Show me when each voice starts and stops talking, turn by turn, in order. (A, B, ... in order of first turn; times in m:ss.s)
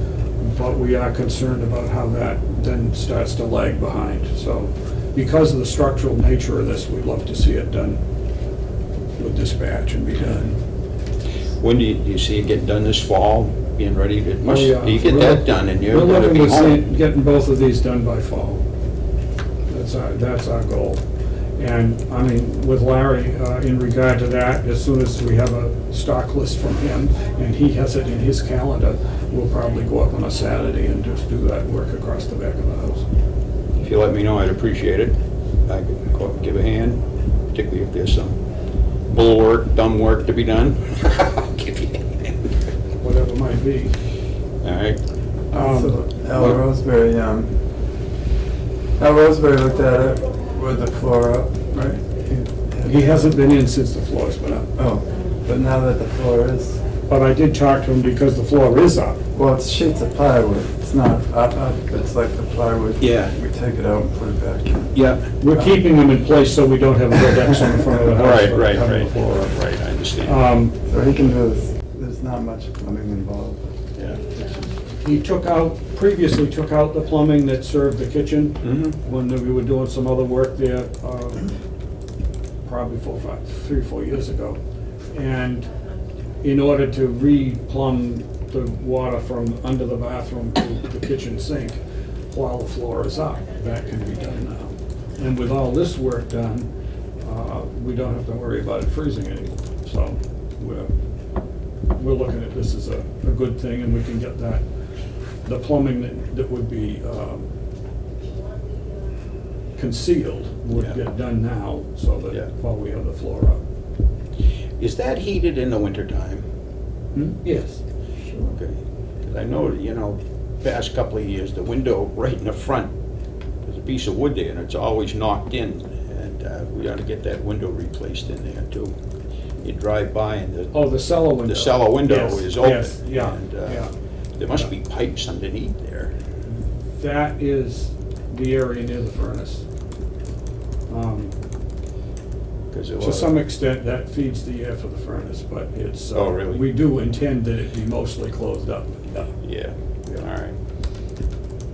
0:00.4-0:08.0 A
0:09.2-0:10.6 A
0:11.6-0:16.8 B
0:14.4-0:18.6 A
0:19.7-0:21.0 A
0:21.6-0:33.1 A
0:33.8-0:38.4 B
0:39.1-0:42.4 B
0:43.0-0:44.0 A
0:44.6-0:45.0 B
0:45.5-0:46.5 A
0:45.5-0:47.6 C
0:49.0-0:53.4 C
0:52.8-0:54.7 A
0:54.8-0:56.8 C
0:57.1-0:59.2 A
0:59.3-1:05.0 C
1:03.0-1:03.3 B
1:04.9-1:05.3 B
1:05.4-1:09.5 A
1:08.0-1:10.5 B
1:10.2-1:10.9 A
1:10.9-1:13.7 C
1:14.0-1:14.2 B
1:15.0-1:21.5 A
1:18.6-1:19.0 B
1:22.6-1:24.6 A
1:25.1-1:25.7 A
1:26.4-1:31.8 A
1:32.3-1:36.7 A
1:37.2-1:40.9 A
1:42.0-1:44.6 A
1:45.4-1:47.5 A
1:49.8-1:53.6 A
1:50.7-1:51.0 B
1:54.8-1:56.5 B
1:57.1-1:57.8 A
1:58.4-2:02.9 B
2:03.7-2:08.9 B
2:09.6-2:10.8 B
2:10.7-2:13.9 A
2:11.4-2:13.8 B
2:14.4-2:16.1 B
2:16.9-2:19.7 A
2:20.9-2:21.3 A
2:22.7-2:23.4 B
2:23.0-2:29.4 A
2:26.1-2:26.6 B
2:29.4-2:30.6 B